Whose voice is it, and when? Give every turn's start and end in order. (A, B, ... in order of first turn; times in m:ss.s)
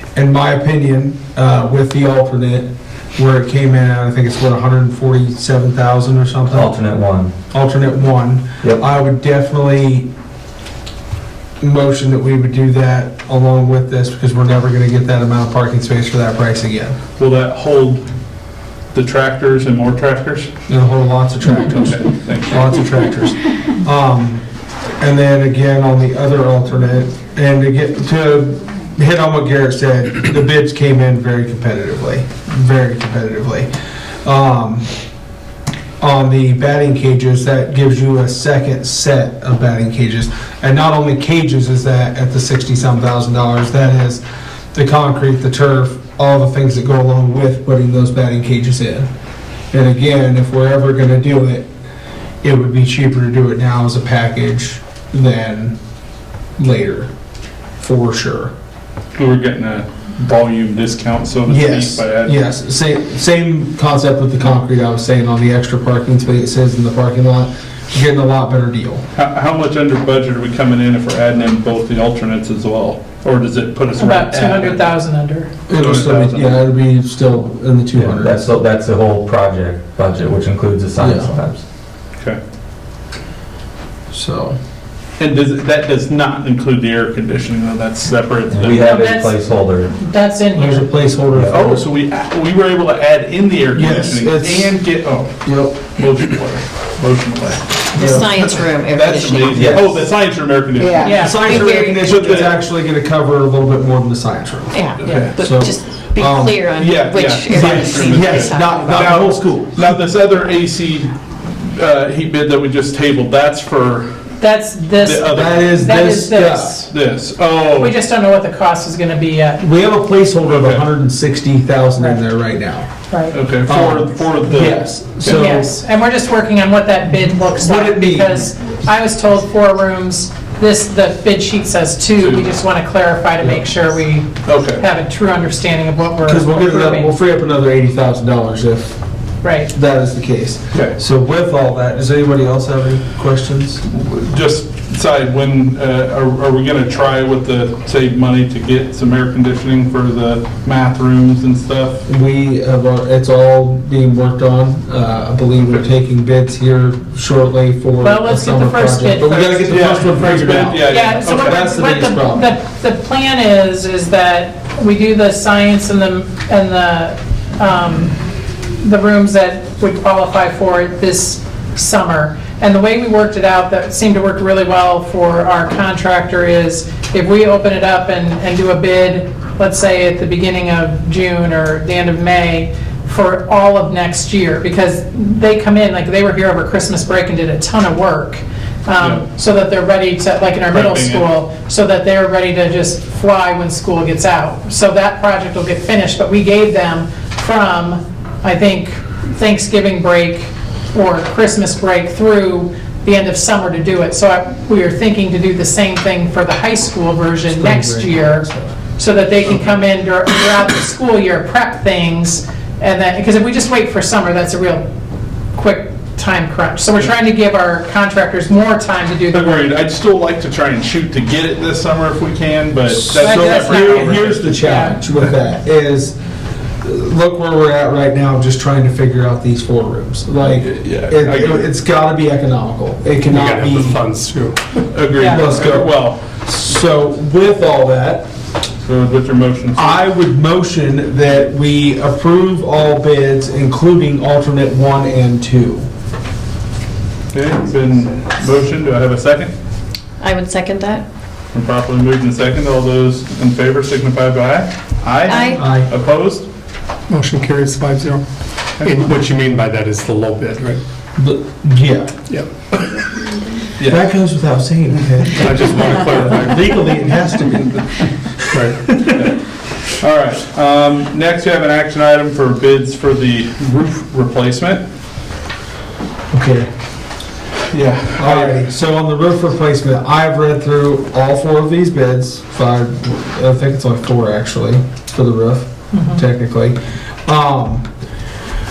0:00.1-0:06.7 A
0:06.5-0:07.3 B
0:07.5-0:10.1 A
0:11.6-0:17.0 A
0:17.2-0:18.0 C
0:18.9-0:20.5 C
0:20.7-0:24.4 A
0:21.6-0:22.8 C
0:25.0-0:33.7 A
0:34.2-0:34.9 A
0:36.0-0:44.2 A
0:44.7-0:49.0 A
0:49.7-0:51.7 A
0:52.4-0:55.8 A
0:56.6-0:57.1 A
0:57.8-0:58.5 A
0:59.2-1:02.4 C
1:01.5-1:09.0 A
1:09.2-1:14.9 C
1:13.9-1:15.5 D
1:15.7-1:18.5 A
1:15.7-1:16.6 C
1:17.9-1:21.6 B
1:21.0-1:21.4 A
1:24.1-1:24.6 A
1:25.2-1:29.2 C
1:28.5-1:29.9 B
1:28.8-1:31.0 D
1:30.5-1:31.8 A
1:31.5-1:42.6 C
1:33.7-1:34.7 A
1:35.4-1:35.8 A
1:37.9-1:39.9 E
1:37.9-1:38.4 A
1:39.5-1:39.9 B
1:40.8-1:42.5 E
1:41.0-1:41.4 D
1:41.0-1:46.6 A
1:44.7-1:49.3 E
1:45.0-1:45.3 C
1:46.8-1:54.2 C
1:47.5-1:49.8 A
1:54.4-1:56.9 D
1:55.0-1:55.7 C
1:55.3-1:56.8 A
1:56.9-1:57.9 C
1:57.7-1:59.7 D
1:59.6-2:02.9 A
2:00.4-2:00.8 C
2:02.0-2:02.2 D
2:03.0-2:03.4 D
2:03.3-2:05.4 C
2:03.6-2:05.7 A
2:05.3-2:17.1 D
2:07.5-2:08.5 A
2:12.2-2:12.5 C
2:13.4-2:13.6 A
2:14.4-2:14.8 C
2:16.2-2:19.0 A
2:19.4-2:19.7 D
2:19.7-2:23.8 A
2:23.9-2:32.0 C
2:32.1-2:42.4 A
2:38.0-2:39.8 D
2:39.7-2:41.7 C
2:40.8-3:34.8 D
3:09.0-3:09.2 C
3:10.7-3:11.3 C
3:27.5-3:28.7 A
3:35.5-3:39.7 D
3:39.3-3:44.8 C
3:42.9-3:46.2 A
3:43.2-3:44.0 D
3:44.6-3:45.0 D
3:46.8-3:54.0 A
3:50.4-3:51.7 C
3:53.2-3:54.8 F
3:54.9-3:56.2 C
3:55.2-3:58.2 A
3:58.8-4:00.0 C
3:59.8-4:05.9 A
4:07.3-4:09.5 C
4:10.2-4:11.0 E
4:11.5-4:16.5 C
4:15.2-4:15.6 E
4:15.5-4:15.9 A
4:17.1-4:18.2 F
4:18.8-4:20.8 F
4:21.2-4:22.1 A
4:22.3-4:23.3 F
4:23.8-4:24.1 C
4:23.8-4:29.1 A
4:25.4-4:27.3 F
4:28.5-4:29.0 F
4:29.0-4:29.4 C
4:30.0-4:34.8 C
4:36.3-4:36.7 A
4:37.7-4:38.6 C
4:38.2-4:47.8 A
4:45.9-4:46.2 D